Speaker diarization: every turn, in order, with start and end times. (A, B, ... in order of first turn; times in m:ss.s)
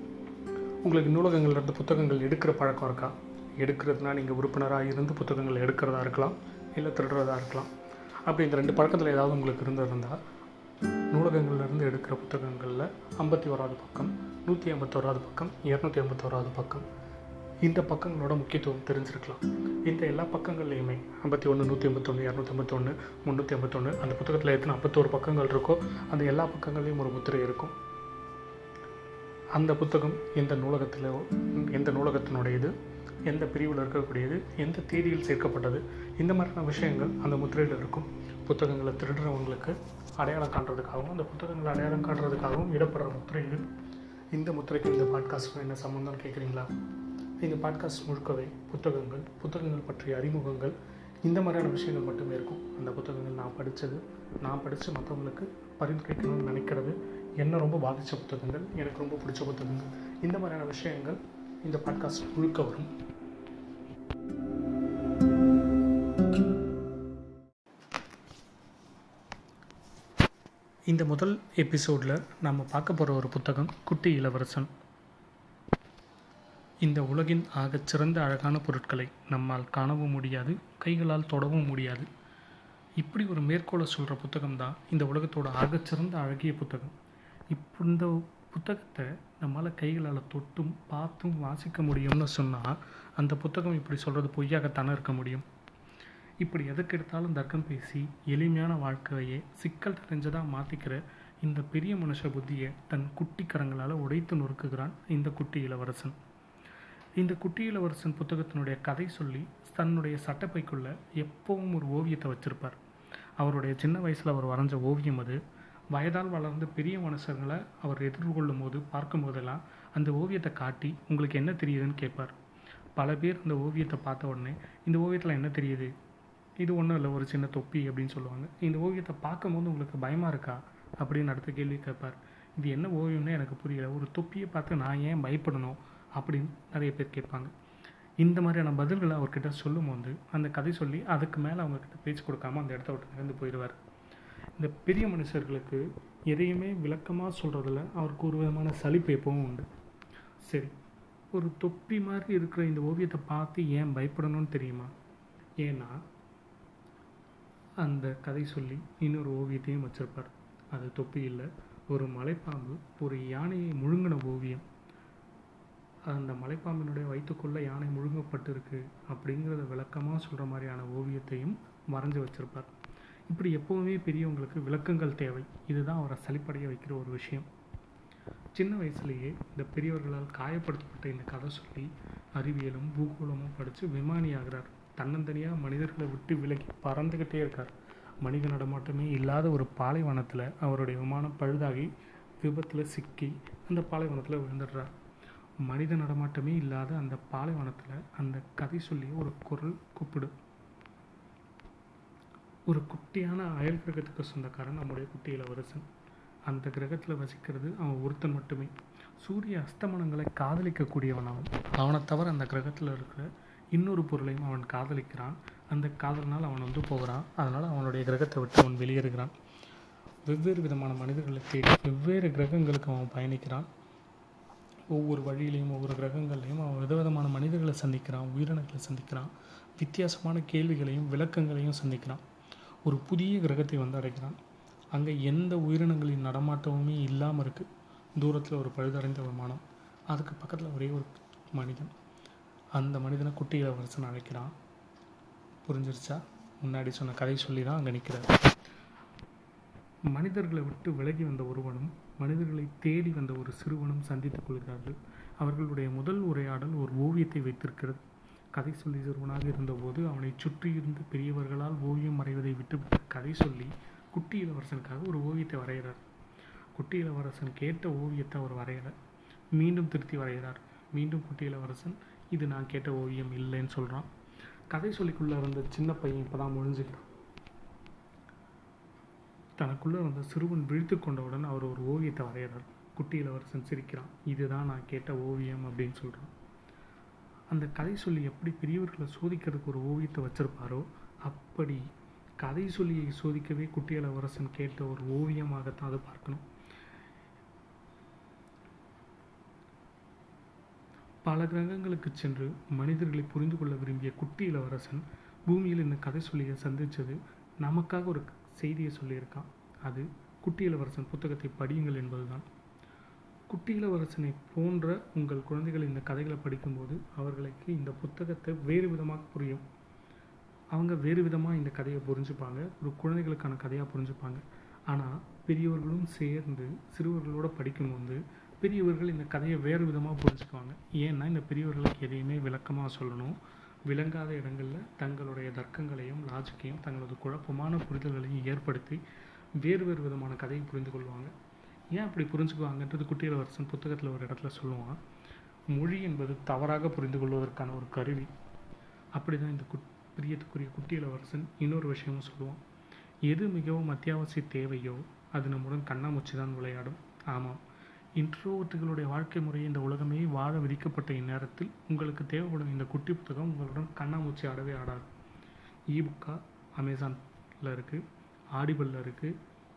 0:00.8-0:07.7 A
0:08.2-0:10.2 A
0:11.1-0:16.9 A
0:17.6-0:27.8 A
0:29.5-0:32.7 A
0:33.3-0:43.6 A
0:44.3-0:46.7 A
0:47.4-1:02.9 A
1:10.9-1:14.7 A
1:16.8-1:22.1 A
1:23.0-1:26.9 A
1:27.5-1:35.4 A
1:36.4-1:46.2 A
1:47.2-1:52.8 A
1:53.4-1:55.4 A
1:55.9-2:02.3 A
2:03.0-2:05.9 A
2:06.6-2:17.5 A
2:18.2-2:23.8 A
2:24.6-2:29.7 A
2:30.4-2:30.7 A
2:31.3-2:34.9 A
2:35.6-2:36.0 A
2:37.8-2:44.6 A
2:46.1-2:52.7 A
2:53.3-2:57.5 A
2:58.5-3:14.9 A
3:15.6-3:20.3 A
3:22.7-3:25.8 A
3:26.5-3:39.3 A
3:40.2-3:43.7 A
3:44.9-3:52.2 A
3:52.8-3:54.4 A
3:54.9-4:01.9 A
4:02.8-4:04.5 A
4:05.6-4:08.4 A
4:10.1-4:18.0 A
4:18.5-4:26.0 A
4:26.7-4:29.0 A
4:29.5-4:34.1 A
4:34.7-4:37.1 A
4:39.6-4:46.3 A
4:47.5-4:51.8 A
4:52.4-4:56.4 A
5:01.2-5:12.4 A
5:13.5-5:19.6 A
5:20.7-5:33.4 A
5:33.9-5:39.0 A
5:39.6-5:41.3 A
5:41.9-5:45.0 A
5:45.7-5:48.3 A
5:49.2-5:52.6 A
5:53.3-5:57.6 A
5:58.2-6:05.1 A
6:05.9-6:08.0 A
6:08.5-6:09.3 A